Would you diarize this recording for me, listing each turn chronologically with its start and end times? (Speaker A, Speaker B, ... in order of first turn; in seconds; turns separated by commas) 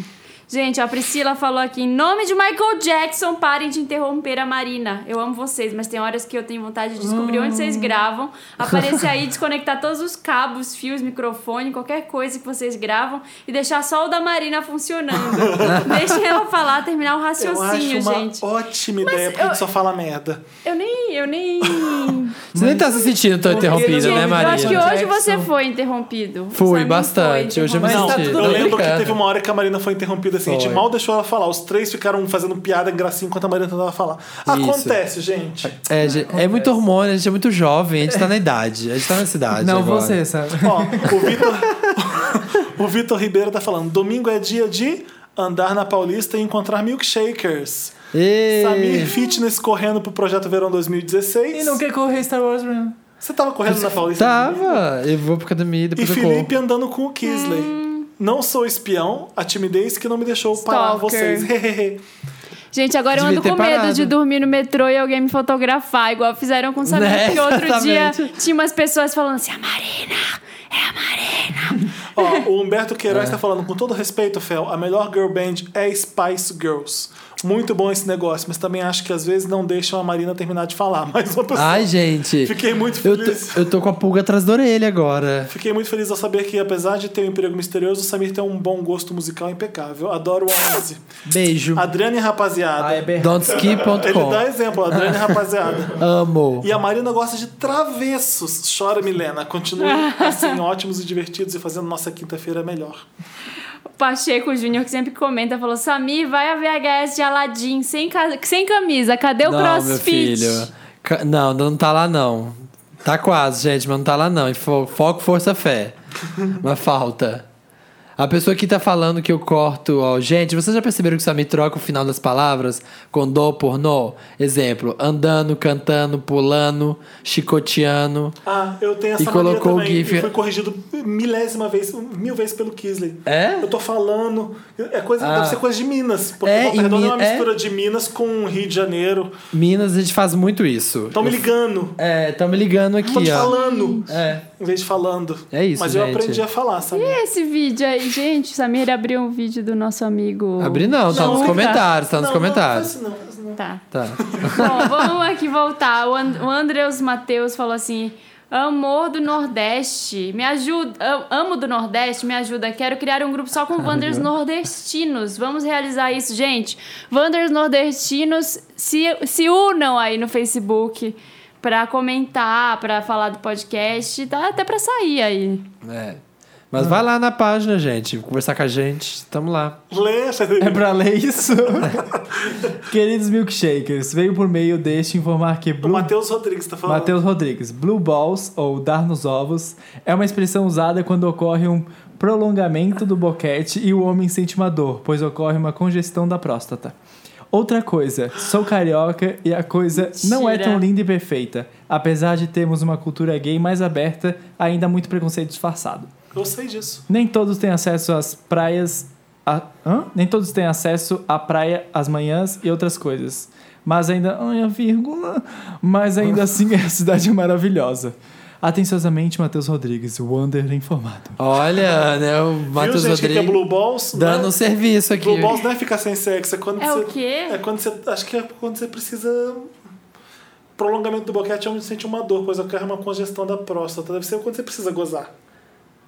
Speaker A: 0.5-18.4, Speaker B: 7.0-7.9, Speaker C: 15.3-15.9, Speaker D: 15.6-16.2, Speaker C: 17.4-20.5, Speaker A: 19.0-19.6, Speaker A: 20.6-22.4, Speaker C: 21.6-22.2, Speaker B: 22.5-25.5, Speaker D: 22.5-24.9, Speaker A: 23.6-28.3, Speaker D: 26.5-29.2, Speaker B: 27.8-28.8, Speaker C: 27.8-35.8, Speaker D: 30.4-30.8, Speaker D: 34.5-35.0, Speaker D: 35.8-40.2, Speaker B: 36.0-36.8, Speaker B: 39.6-41.2, Speaker C: 40.6-48.0, Speaker D: 48.1-49.1, Speaker C: 48.5-51.8, Speaker B: 51.5-53.0, Speaker C: 53.2-54.9, Speaker D: 53.7-56.5, Speaker C: 55.9-62.0, Speaker A: 57.2-58.1, Speaker A: 60.6-61.5, Speaker A: 62.7-72.4, Speaker D: 63.1-64.1, Speaker D: 66.8-68.3, Speaker C: 72.1-83.7, Speaker D: 73.1-73.4, Speaker D: 81.5-85.5, Speaker C: 85.5-91.0, Speaker D: 91.2-91.9, Speaker C: 91.7-96.0, Speaker B: 92.8-93.6, Speaker D: 93.2-94.5, Speaker D: 95.0-95.2, Speaker D: 95.9-96.7, Speaker C: 96.6-103.0, Speaker A: 99.8-100.5, Speaker A: 104.0-110.7, Speaker D: 109.4-117.4, Speaker D: 118.2-128.3, Speaker C: 128.4-139.3, Speaker D: 129.2-130.3, Speaker D: 133.2-133.7, Speaker D: 135.2-135.6, Speaker D: 136.4-137.5, Speaker D: 139.5-141.4, Speaker C: 141.1-142.0, Speaker D: 142.0-143.5, Speaker A: 143.0-144.1, Speaker C: 143.1-147.2, Speaker D: 144.1-144.4, Speaker D: 145.5-146.4, Speaker A: 146.9-151.8, Speaker D: 150.6-152.9, Speaker C: 151.1-153.6, Speaker A: 153.6-153.8, Speaker D: 153.9-154.9, Speaker C: 154.2-154.8, Speaker A: 154.5-175.7, Speaker D: 163.9-164.3, Speaker D: 175.8-176.2, Speaker D: 176.7-179.8, Speaker C: 179.9-180.9, Speaker B: 180.6-182.0, Speaker B: 182.8-186.1, Speaker C: 185.8-187.2, Speaker B: 186.8-196.9, Speaker B: 197.5-206.1, Speaker A: 200.1-200.8, Speaker C: 206.3-207.0, Speaker B: 207.1-221.4, Speaker D: 221.4-225.6, Speaker C: 222.7-224.6, Speaker C: 225.1-229.7, Speaker A: 226.8-227.6, Speaker C: 230.8-235.3